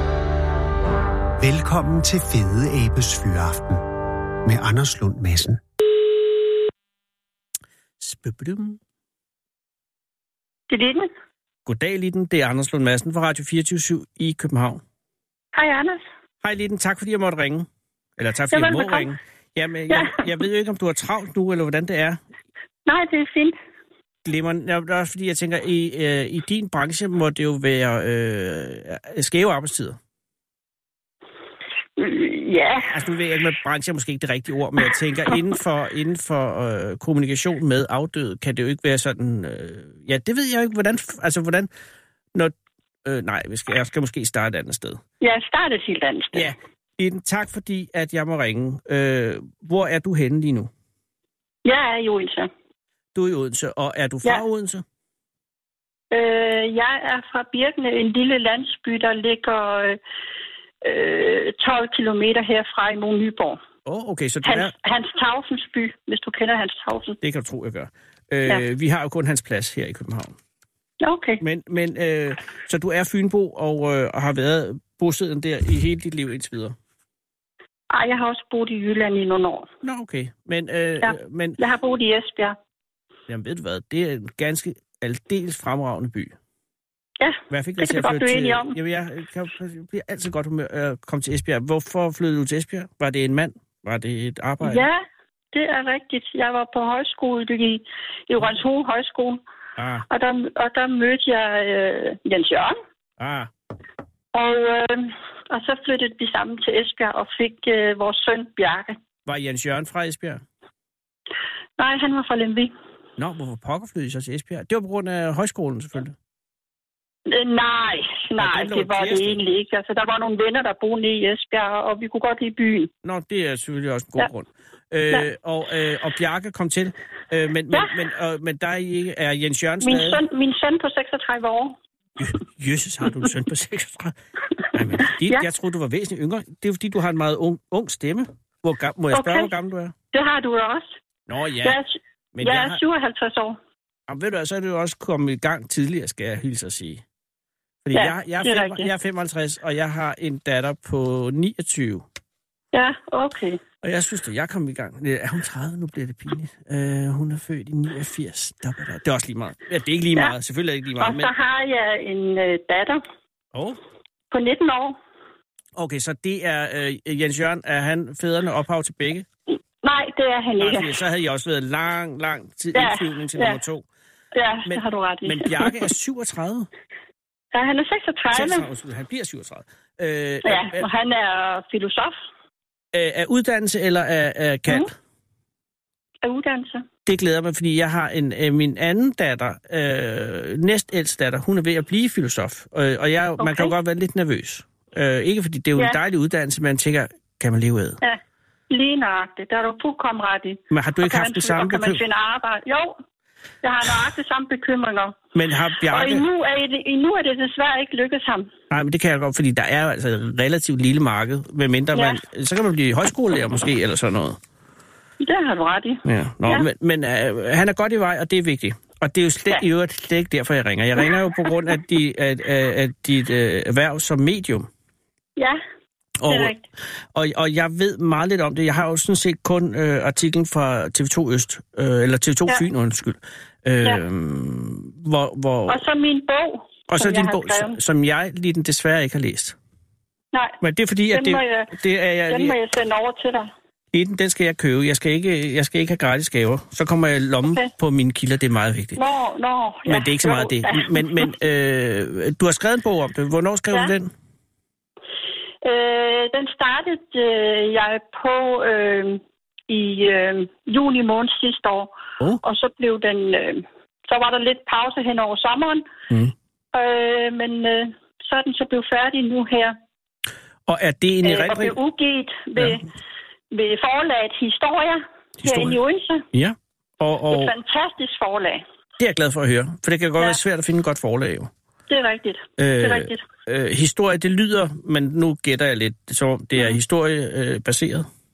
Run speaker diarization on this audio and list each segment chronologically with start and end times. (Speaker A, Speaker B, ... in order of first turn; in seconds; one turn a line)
Speaker A: 1.4-3.8
Speaker A: 4.4-5.6
Speaker B: 8.0-8.8
Speaker C: 10.7-11.1
Speaker B: 11.7-14.8
Speaker C: 15.5-16.0
Speaker B: 16.4-17.7
Speaker B: 18.2-22.2
Speaker C: 18.5-19.1
Speaker C: 19.9-20.2
Speaker C: 22.9-23.6
Speaker B: 24.2-30.0
Speaker C: 32.0-32.9
Speaker B: 32.9-41.7
Speaker B: 42.3-45.0
Speaker C: 45.2-46.5
Speaker B: 46.3-50.7
Speaker C: 51.6-52.5
Speaker B: 53.1-54.8
Speaker C: 56.1-60.0
Speaker C: 60.8-63.6
Speaker B: 63.8-64.7
Speaker C: 64.4-67.2
Speaker B: 67.2-70.3
Speaker C: 71.0-71.4
Speaker B: 71.4-76.8
Speaker C: 77.9-79.7
Speaker B: 79.8-81.6
Speaker C: 81.0-82.5
Speaker B: 83.3-86.3
Speaker C: 87.2-88.8
Speaker B: 87.5-94.9
Speaker C: 94.6-99.4
Speaker B: 99.8-100.0
Speaker C: 100.1-102.8
Speaker B: 103.2-103.5
Speaker C: 104.3-109.0
Speaker B: 109.2-110.4
Speaker C: 111.8-112.7
Speaker B: 113.2-116.2
Speaker C: 117.2-122.9
Speaker B: 118.4-119.4
Speaker B: 123.0-130.2
Speaker C: 129.8-131.8
Speaker B: 132.2-134.2
Speaker B: 134.7-139.9
Speaker C: 139.1-139.5
Speaker C: 140.1-140.9
Speaker B: 141.3-141.8
Speaker C: 141.6-143.6
Speaker B: 142.3-142.8
Speaker B: 144.1-147.0
Speaker B: 147.8-152.0
Speaker C: 147.9-148.9
Speaker C: 152.7-153.6
Speaker B: 153.8-161.3
Speaker C: 161.0-163.0
Speaker C: 164.3-165.0
Speaker B: 165.8-169.2
Speaker C: 169.8-170.9
Speaker B: 170.6-173.8
Speaker C: 172.7-173.6
Speaker C: 174.3-175.9
Speaker B: 174.7-176.7
Speaker C: 177.5-178.7
Speaker B: 178.3-180.8
Speaker C: 180.4-182.2
Speaker B: 182.9-184.9
Speaker C: 186.2-186.8
Speaker B: 187.1-198.0
Speaker C: 193.4-193.7
Speaker C: 198.0-202.9
Speaker B: 200.7-202.0
Speaker C: 203.6-205.2
Speaker B: 205.3-206.2
Speaker C: 205.9-208.5
Speaker B: 208.7-214.4
Speaker C: 211.9-212.2
Speaker C: 215.2-216.7
Speaker B: 216.0-224.7
Speaker B: 226.2-226.5
Speaker C: 226.3-226.6
Speaker B: 227.1-235.8
Speaker C: 235.7-237.8
Speaker B: 236.9-239.5
Speaker C: 240.3-240.6
Speaker B: 240.6-242.6
Speaker C: 241.1-241.8
Speaker C: 242.3-243.5
Speaker B: 243.9-249.0
Speaker C: 249.0-251.3
Speaker B: 249.8-254.1
Speaker C: 255.6-265.9
Speaker C: 266.7-269.8
Speaker B: 270.7-271.8
Speaker C: 271.2-272.8
Speaker C: 273.5-276.3
Speaker B: 275.4-275.8
Speaker B: 276.3-277.5
Speaker C: 277.3-278.6
Speaker B: 279.0-281.5
Speaker C: 281.9-283.2
Speaker B: 282.6-288.1